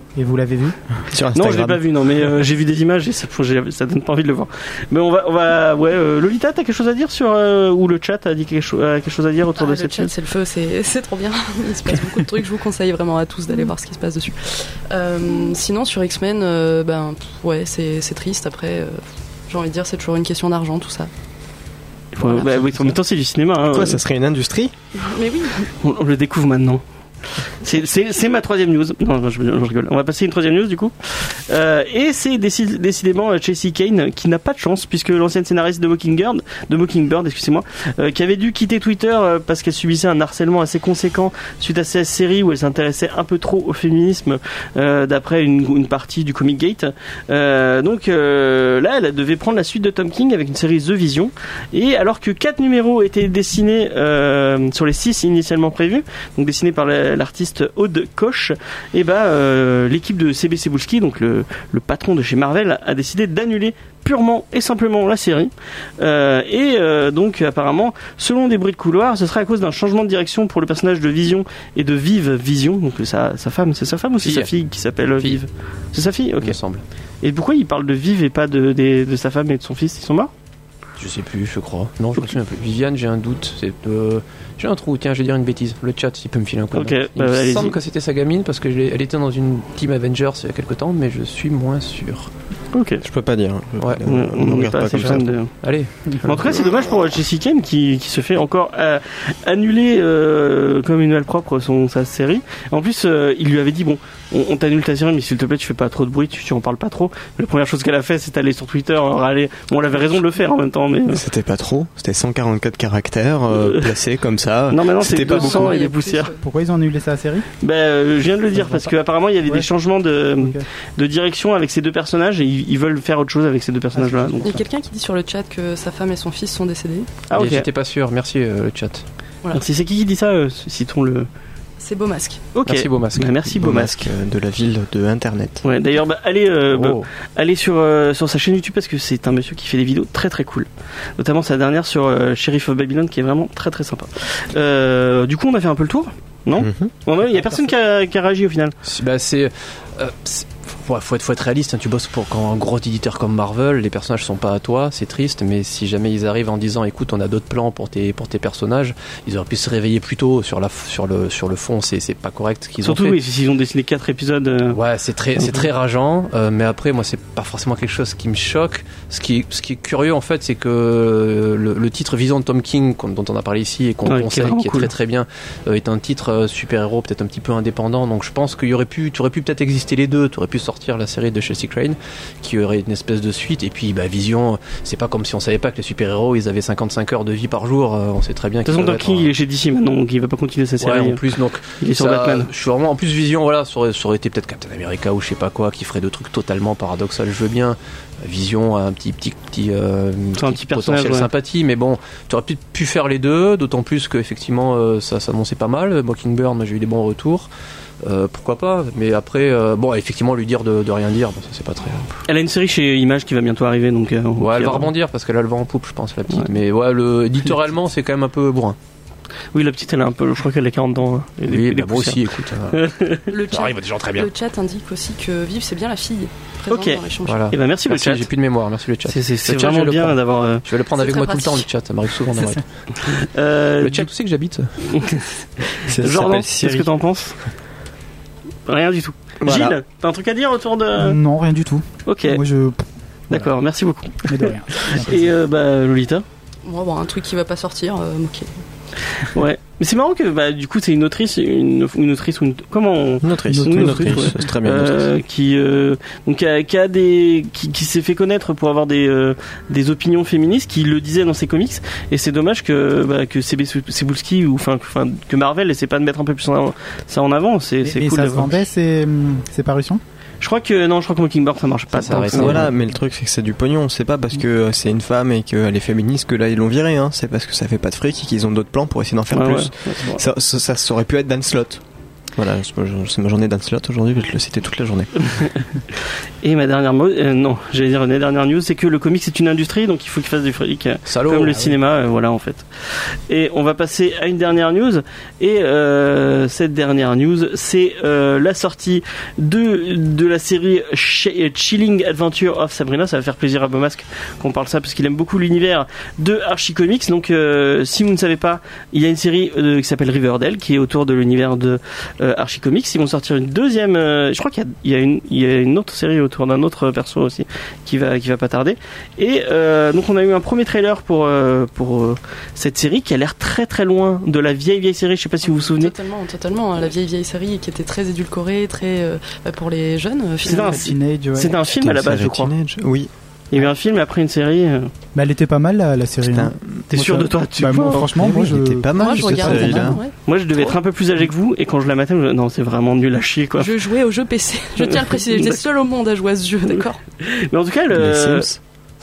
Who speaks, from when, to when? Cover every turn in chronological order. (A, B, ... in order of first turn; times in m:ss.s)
0:00.2-0:01.0 A
0:01.1-0:01.8 B
0:01.3-0:10.1 C
0:09.6-0:21.1 D
0:22.1-0:24.0 C
0:22.2-0:22.9 D
0:23.7-0:24.7 B
0:25.0-0:25.7 D
0:25.8-0:26.8 C
0:27.6-1:16.6 C
1:14.2-1:14.5 E
1:16.4-1:16.8 E
1:17.2-1:20.3 C
1:21.0-1:32.3 E
1:26.7-1:27.8 C
1:32.7-1:33.0 C
1:33.0-1:35.3 B
1:34.0-1:35.5 C
1:35.6-1:36.5 E
1:36.1-1:51.2 C
1:51.1-1:55.7 B
1:53.6-1:53.9 C
1:54.7-1:56.3 C
1:55.2-1:56.4 D
1:56.4-1:57.5 A
1:57.6-2:04.6 C
1:58.5-1:58.9 A
2:00.4-2:00.6 A
2:03.9-2:04.6 A
2:04.4-2:07.1 D
2:07.3-2:07.7 C
2:07.3-2:09.0 E
2:09.5-2:11.3 C
2:11.8-2:12.4 D
2:12.5-2:14.0 C
2:12.6-2:13.6 E
2:13.6-2:15.6 B
2:15.6-2:28.7 C
2:16.7-2:17.1 E
2:26.6-2:26.9 B
2:28.8-2:43.2 E
2:42.8-2:44.8 C
2:44.7-3:09.3 E
2:54.0-2:54.9 C
3:08.6-3:11.2 C
3:10.8-3:27.5 E
3:11.8-3:12.5 C
3:20.4-3:21.3 C
3:28.0-3:32.1 E
3:32.3-3:34.9 C
3:34.4-3:38.8 E
3:39.5-3:43.2 C
3:41.4-3:42.8 E
3:43.3-3:47.5 D
3:43.5-3:44.3 E
3:46.7-3:48.3 C
3:47.2-3:53.3 E
3:49.1-3:50.6 C
3:51.0-3:51.7 D
3:53.0-3:54.1 C
3:53.8-3:55.0 E
3:54.9-3:55.2 C
3:55.8-3:57.4 C
3:55.8-3:56.9 B
3:58.7-4:01.2 C
3:59.4-3:59.8 B
4:01.0-4:02.8 A
4:02.1-4:02.4 C
4:03.3-4:06.2 C
4:04.3-4:05.2 A
4:06.6-4:08.5 D
4:09.2-4:28.6 C
4:13.2-4:15.1 B
4:13.5-4:14.4 A
4:27.8-4:30.0 A
4:30.4-4:32.6 C
4:31.9-4:32.7 E
4:32.2-4:41.8 B
4:39.3-4:40.2 C
4:42.4-4:45.3 B
4:45.4-5:25.9 C
4:51.0-4:51.7 E
5:25.4-5:30.8 D
5:30.4-5:32.5 C
5:30.5-5:31.5 A
5:31.7-5:33.1 B
5:33.5-5:34.9 C
5:35.1-5:40.0 A
5:36.2-5:36.8 B
5:36.9-5:38.3 C
5:38.0-5:40.0 B
5:39.0-5:40.8 D
5:40.2-5:43.7 C
5:43.6-5:47.0 D
5:44.8-5:45.6 C
5:47.2-5:48.5 C
5:47.9-5:48.6 B